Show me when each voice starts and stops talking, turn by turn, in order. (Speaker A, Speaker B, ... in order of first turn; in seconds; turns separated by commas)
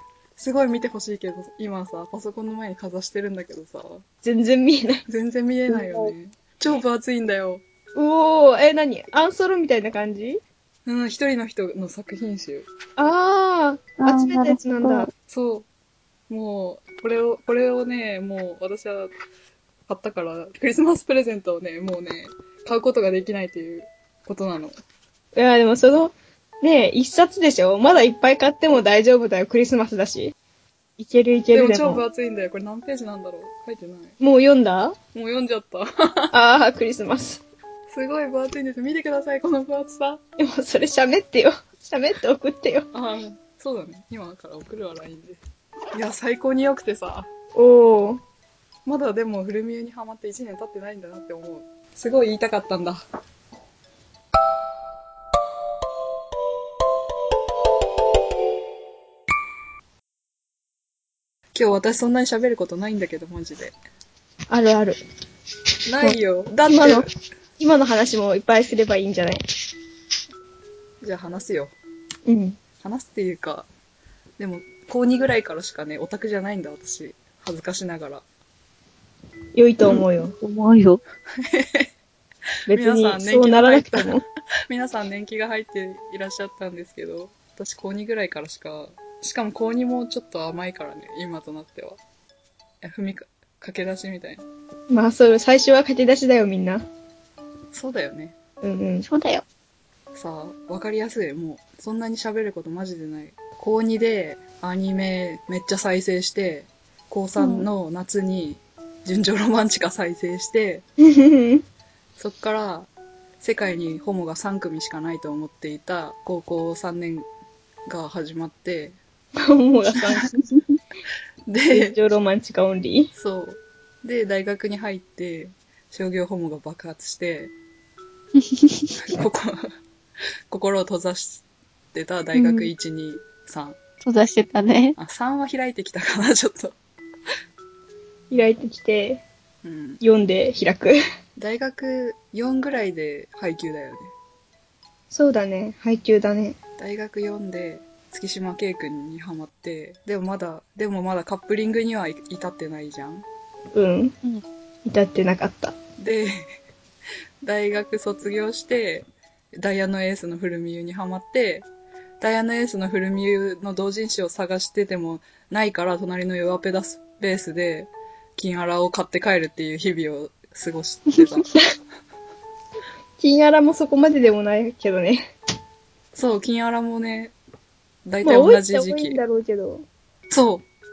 Speaker A: 0.4-4.0, Speaker B: 4.2-5.0, Speaker A: 5.1-7.6, Speaker B: 8.0-10.4, Speaker A: 10.9-12.7, Speaker B: 13.0-15.1, Speaker C: 14.0-15.1, Speaker A: 15.3-15.7, Speaker A: 16.3-19.1, Speaker A: 19.9-24.8, Speaker B: 25.4-30.3, Speaker B: 31.0-32.0, Speaker A: 31.5-34.2, Speaker B: 34.2-35.0, Speaker A: 35.1-36.3, Speaker B: 36.3-37.4, Speaker A: 37.9-40.2, Speaker B: 40.4-42.9, Speaker A: 42.9-45.4, Speaker A: 45.9-47.3, Speaker B: 47.5-48.2, Speaker A: 48.9-53.0, Speaker A: 61.5-63.8, Speaker B: 64.5-65.0, Speaker A: 65.9-67.1, Speaker B: 66.0-67.1, Speaker B: 67.6-69.4, Speaker A: 71.0-71.7, Speaker B: 72.3-72.6, Speaker A: 72.8-73.7, Speaker A: 74.4-78.2, Speaker B: 79.5-80.3, Speaker C: 79.8-81.0, Speaker A: 81.4-81.9, Speaker B: 82.7-84.2, Speaker A: 82.7-92.0, Speaker A: 92.8-94.5, Speaker B: 94.9-96.8, Speaker A: 97.7-98.4, Speaker B: 98.6-99.1, Speaker C: 99.1-99.4, Speaker A: 100.1-110.8, Speaker C: 107.4-107.7, Speaker B: 111.0-111.6, Speaker A: 112.2-112.9, Speaker A: 113.4-117.3, Speaker A: 117.9-119.0, Speaker B: 119.4-120.5, Speaker A: 120.0-120.3, Speaker A: 121.5-122.0, Speaker B: 121.7-123.1, Speaker A: 123.2-127.5, Speaker C: 128.4-129.0, Speaker A: 129.0-129.7, Speaker A: 130.5-133.8, Speaker B: 132.4-132.7, Speaker C: 134.0-135.0, Speaker A: 135.0-136.8, Speaker B: 138.3-139.2, Speaker A: 139.6-140.0, Speaker B: 140.0-141.0, Speaker A: 141.4-144.1, Speaker B: 145.1-146.6, Speaker A: 146.8-153.3, Speaker B: 153.8-154.1, Speaker B: 154.9-155.8, Speaker A: 156.0-156.4, Speaker A: 157.4-159.1, Speaker A: 159.6-161.7, Speaker A: 162.2-171.5, Speaker B: 173.2-175.2, Speaker A: 176.1-177.3, Speaker A: 178.1-179.2, Speaker B: 178.2-179.8, Speaker A: 180.3-180.7